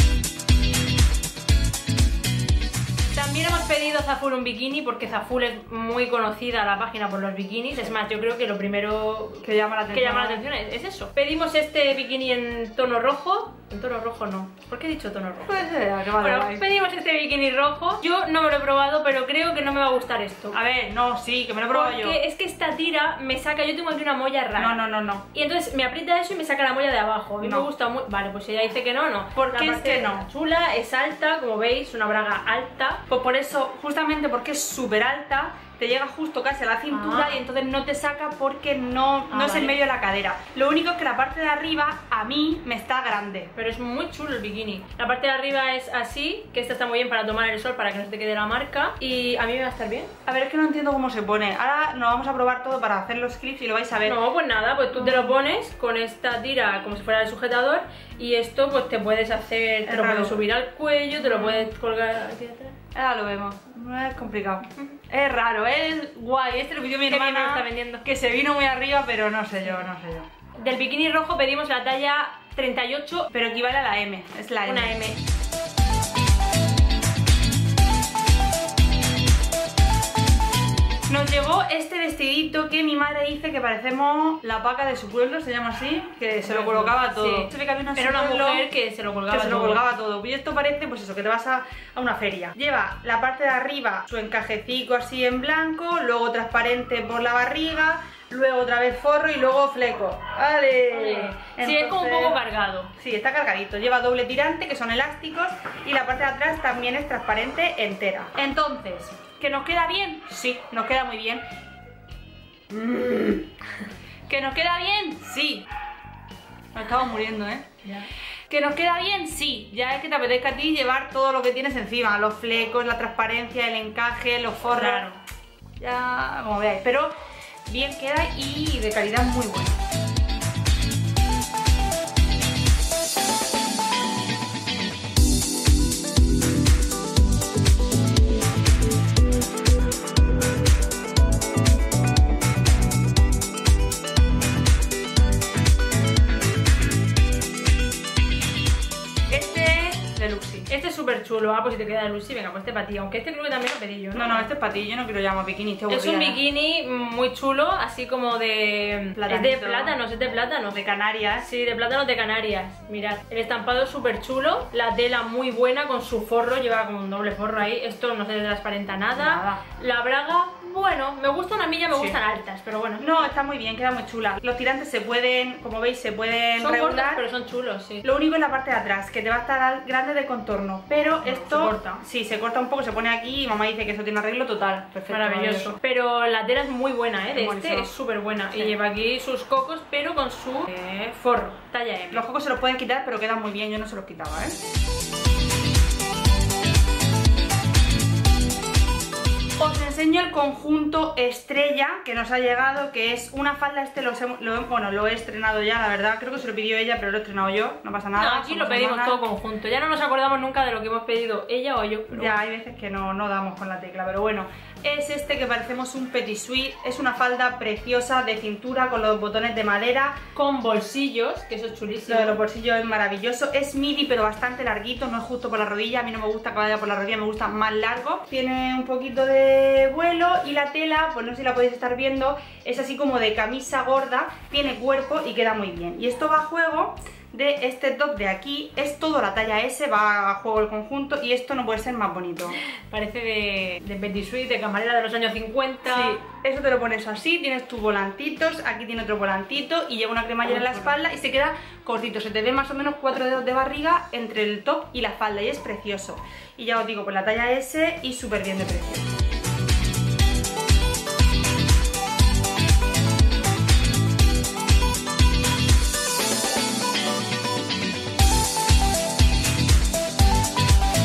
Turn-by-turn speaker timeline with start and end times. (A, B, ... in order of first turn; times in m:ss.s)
0:03.1-0:20.6 A
0:09.4-0:10.4 B
0:15.4-0:16.6 B
0:20.5-0:22.2 B
0:21.7-0:24.8 A
0:24.6-0:25.2 B
0:25.3-0:33.0 A
0:27.4-0:27.7 B
0:29.3-0:30.2 B
0:33.1-0:43.5 B
0:36.9-0:37.4 A
0:39.3-0:39.7 A
0:43.6-0:50.1 A
0:50.2-0:54.2 B
0:54.0-1:02.8 A
0:54.9-0:55.4 B
0:59.8-1:00.4 B
1:01.2-1:01.7 B
1:02.9-1:10.2 B
1:07.1-1:08.1 A
1:10.6-1:13.3 A
1:13.3-1:15.0 B
1:14.6-1:15.2 A
1:21.1-1:28.7 B
1:26.4-1:29.8 A
1:29.3-1:42.4 B
1:40.9-1:42.9 A
1:43.0-1:51.4 B
1:52.7-1:53.4 B
1:54.3-1:55.6 B
1:56.7-1:57.6 B
1:58.5-2:05.1 B
2:04.6-2:05.2 A
2:05.8-2:07.1 B
2:07.7-2:09.8 B
2:29.3-2:30.7 B
2:30.7-2:34.5 A
2:34.1-2:36.4 B
2:35.9-2:40.8 A
2:39.1-2:40.0 B
2:40.7-2:41.4 B
2:41.4-2:53.3 A
2:49.1-2:49.6 B
2:51.9-2:52.2 B
2:53.0-2:57.2 B
2:56.6-2:58.0 A
2:58.0-3:05.8 B
3:01.2-3:02.0 A
3:05.1-3:12.2 A
3:07.3-3:07.9 B
3:08.5-3:08.8 B
3:12.1-3:14.6 B
3:19.6-3:29.2 B
3:28.1-3:32.3 A
3:32.1-3:40.2 B
3:40.3-3:42.4 A
3:42.1-4:02.6 B
4:02.9-4:06.2 A
4:05.8-4:19.1 B
4:10.4-4:11.0 A